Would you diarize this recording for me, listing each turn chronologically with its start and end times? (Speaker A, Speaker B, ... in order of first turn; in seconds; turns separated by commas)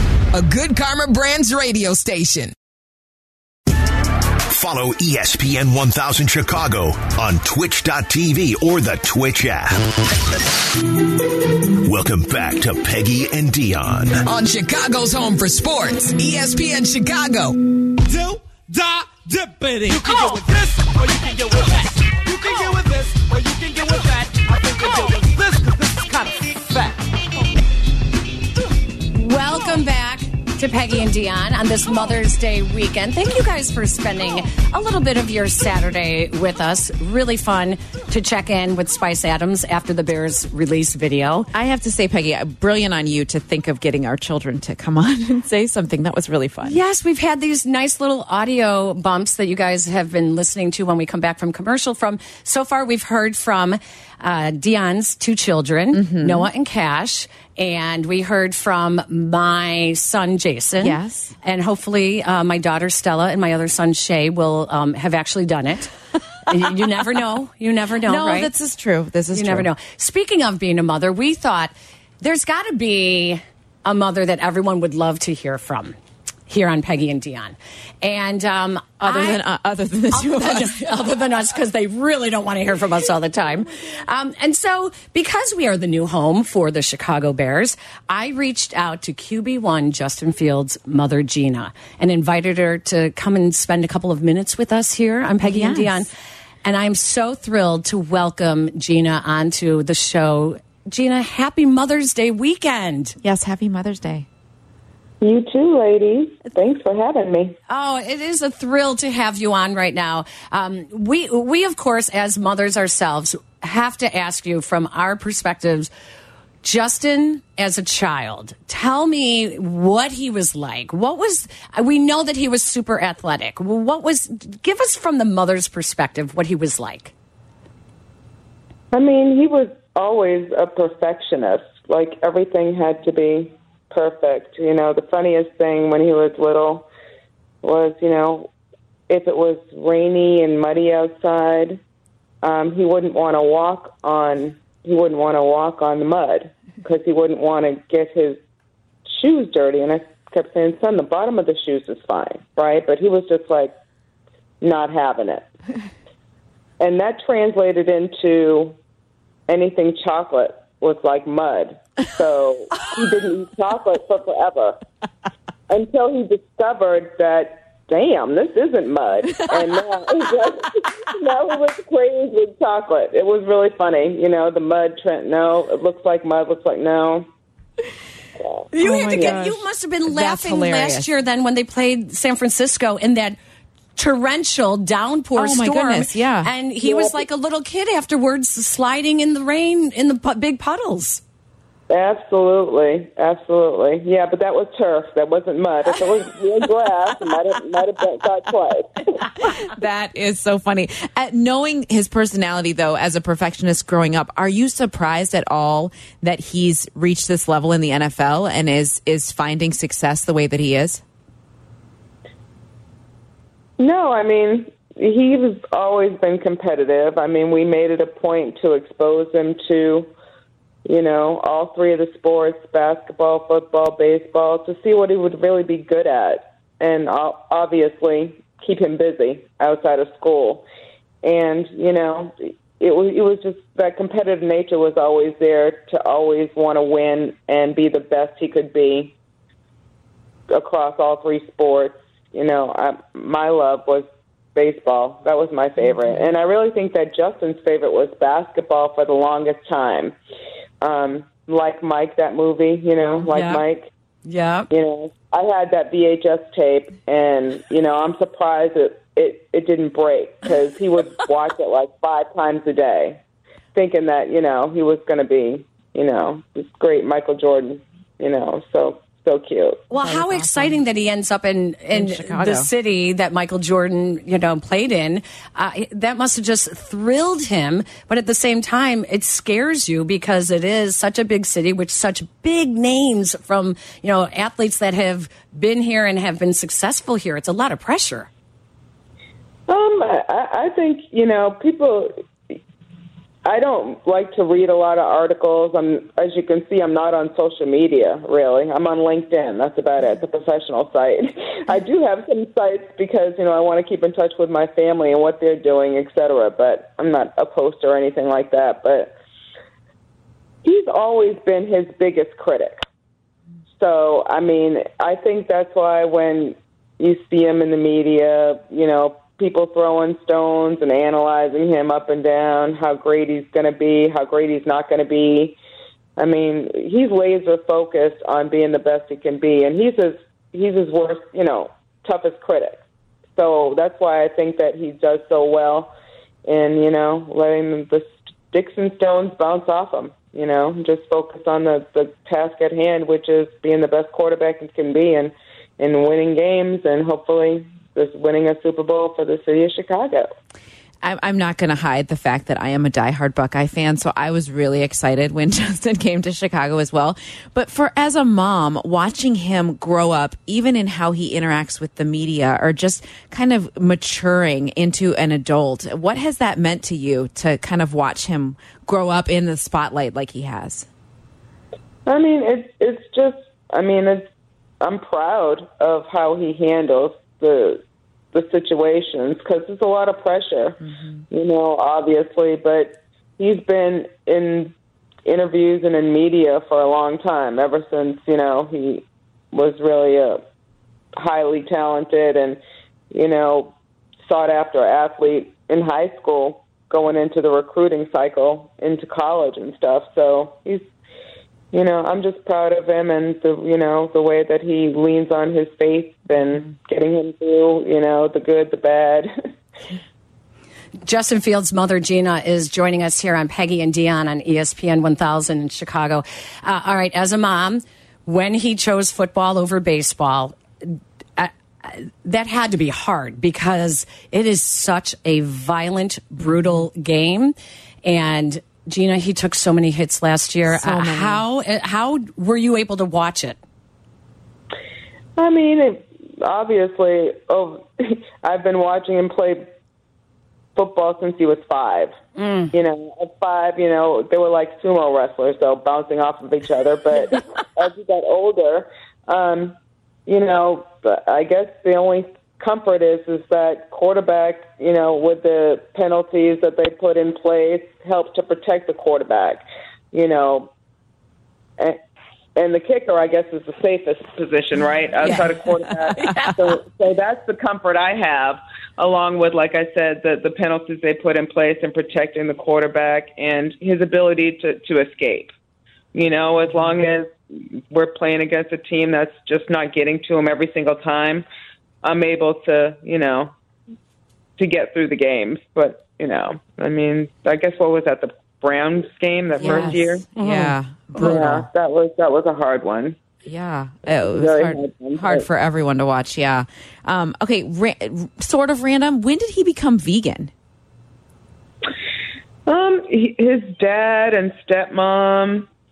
Speaker A: 0.3-2.5, Speaker B: 4.5-10.0, Speaker B: 11.8-14.2, Speaker A: 14.3-17.6, Speaker C: 18.1-27.1, Speaker D: 29.1-41.5, Speaker E: 41.5-46.8, Speaker D: 46.6-65.9, Speaker E: 55.9-56.5, Speaker E: 60.8-61.3, Speaker D: 66.5-68.5, Speaker E: 68.0-69.7, Speaker D: 69.3-76.0, Speaker D: 76.5-79.4, Speaker E: 79.0-80.8, Speaker D: 80.1-96.1, Speaker E: 95.4-96.0, Speaker D: 96.7-103.2, Speaker E: 103.2-104.3, Speaker F: 105.2-107.6, Speaker D: 107.7-115.9, Speaker D: 116.6-127.1, Speaker F: 128.9-136.9, Speaker F: 137.6-138.5, Speaker F: 139.1-141.8, Speaker F: 142.4-148.4, Speaker F: 149.1-153.7, Speaker F: 154.6-155.5, Speaker F: 156.8-158.8, Speaker F: 159.5-164.8, Speaker F: 165.7-177.3, Speaker D: 178.7-183.4, Speaker E: 178.8-181.1, Speaker D: 184.0-191.2, Speaker E: 185.4-186.5, Speaker F: 186.8-187.2, Speaker F: 191.9-199.3, Speaker E: 199.4-211.0, Speaker F: 213.8-220.1, Speaker F: 220.9-230.7, Speaker F: 231.2-239.2, Speaker F: 240.5-250.2, Speaker F: 250.8-253.9, Speaker D: 253.3-253.6, Speaker D: 254.3-254.7, Speaker F: 254.7-263.2, Speaker F: 263.7-269.9, Speaker D: 269.9-288.3, Speaker E: 269.9-270.8, Speaker E: 271.9-272.7, Speaker F: 289.7-292.1, Speaker F: 293.4-309.1, Speaker F: 310.6-312.8, Speaker F: 313.8-325.6, Speaker F: 326.2-332.8, Speaker F: 333.4-335.9, Speaker F: 336.4-350.3, Speaker E: 351.0-370.9, Speaker F: 372.1-374.3, Speaker F: 374.8-377.8, Speaker F: 378.3-380.8, Speaker E: 380.8-381.2, Speaker F: 381.3-384.7, Speaker F: 385.2-390.4, Speaker F: 391.2-392.6, Speaker F: 393.1-400.9, Speaker F: 401.7-409.3, Speaker D: 411.0-433.6, Speaker E: 426.4-426.8, Speaker E: 430.7-431.4, Speaker F: 435.4-439.7, Speaker F: 440.8-442.1, Speaker D: 442.4-442.7, Speaker F: 442.7-460.7, Speaker F: 462.6-475.5, Speaker E: 465.2-466.5, Speaker F: 476.1-481.5, Speaker F: 482.0-483.5, Speaker F: 484.6-490.3, Speaker E: 489.6-491.7, Speaker D: 490.4-490.8, Speaker F: 491.2-493.2, Speaker E: 493.5-500.5, Speaker F: 494.2-495.5, Speaker F: 502.7-505.7